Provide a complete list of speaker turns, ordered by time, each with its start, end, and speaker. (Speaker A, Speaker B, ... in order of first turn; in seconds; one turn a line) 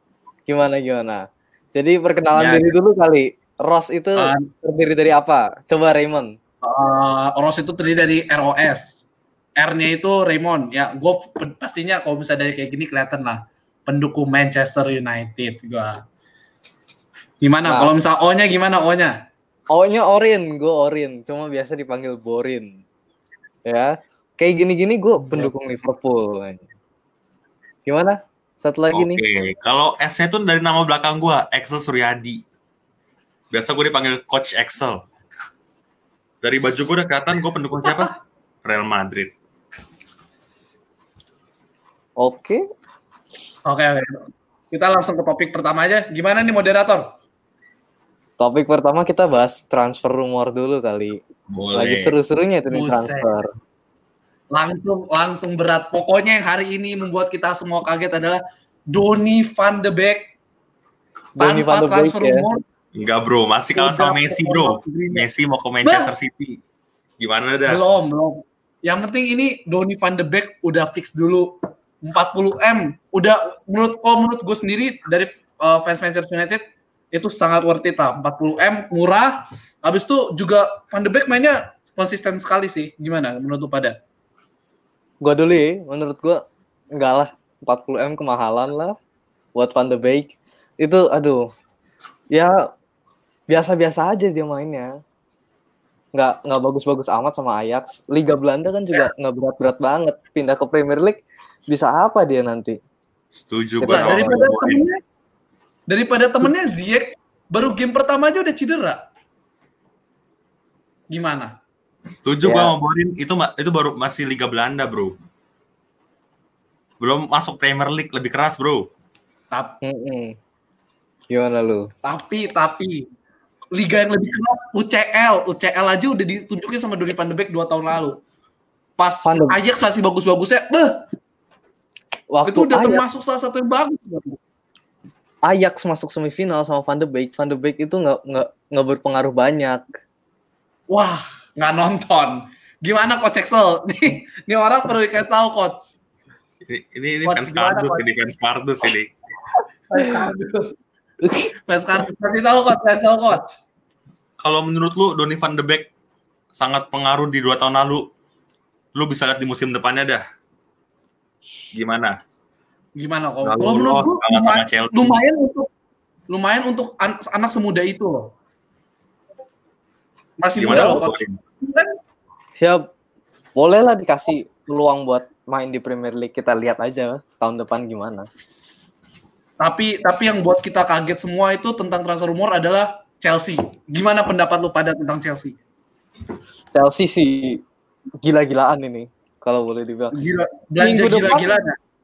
Speaker A: 0.5-6.3
Speaker B: 2.4-2.7
Speaker B: 4.2-4.5
Speaker B: 6.6-9.0
Speaker B: 9.6-16.0
Speaker B: 17.4-19.1
Speaker A: 17.6-17.9
Speaker A: 19.7-22.8
Speaker A: 23.6-26.6
Speaker B: 25.2-25.5
Speaker A: 27.9-29.2
Speaker C: 28.9-32.4
Speaker C: 33.5-35.0
Speaker C: 36.4-38.1
Speaker C: 38.6-39.3
Speaker A: 42.2-42.6
Speaker B: 43.6-47.1
Speaker A: 48.4-51.2
Speaker C: 51.5-52.1
Speaker A: 51.7-53.5
Speaker B: 52.7-53.3
Speaker B: 54.5-60.3
Speaker A: 61.4-62.4
Speaker B: 61.4-62.6
Speaker C: 62.9-66.6
Speaker B: 63.7-65.3
Speaker B: 65.8-66.1
Speaker C: 67.2-67.8
Speaker B: 67.7-76.6
Speaker B: 77.1-83.9
Speaker A: 85.2-86.4
Speaker A: 87.0-88.9
Speaker A: 89.5-91.4
Speaker A: 93.5-94.9
Speaker A: 96.1-102.8
Speaker C: 103.3-104.8
Speaker A: 103.8-104.4
Speaker B: 103.9-105.0
Speaker B: 105.9-109.0
Speaker B: 111.1-111.5
Speaker C: 112.1-115.2
Speaker A: 112.4-112.7
Speaker C: 117.0-118.9
Speaker B: 119.5-119.8
Speaker A: 119.8-120.3
Speaker A: 121.3-121.9
Speaker B: 122.0-123.1
Speaker B: 123.7-128.2
Speaker B: 129.0-131.0
Speaker A: 129.2-129.6
Speaker A: 132.3-133.0
Speaker B: 132.4-134.4
Speaker A: 135.4-140.0
Speaker B: 140.9-145.9
Speaker C: 146.6-149.1
Speaker B: 147.2-148.1
Speaker B: 149.9-150.7
Speaker A: 151.2-151.5
Speaker B: 151.7-153.5
Speaker C: 154.4-155.9
Speaker C: 156.5-158.1
Speaker C: 158.9-160.2
Speaker C: 161.7-162.2
Speaker B: 163.0-165.7
Speaker C: 163.4-165.2
Speaker B: 166.3-168.3
Speaker B: 170.4-171.9
Speaker C: 170.6-171.4
Speaker A: 172.6-172.9
Speaker A: 173.6-178.2
Speaker B: 179.6-185.6
Speaker A: 186.7-187.6
Speaker A: 188.2-190.1
Speaker B: 190.1-191.8
Speaker A: 190.8-191.5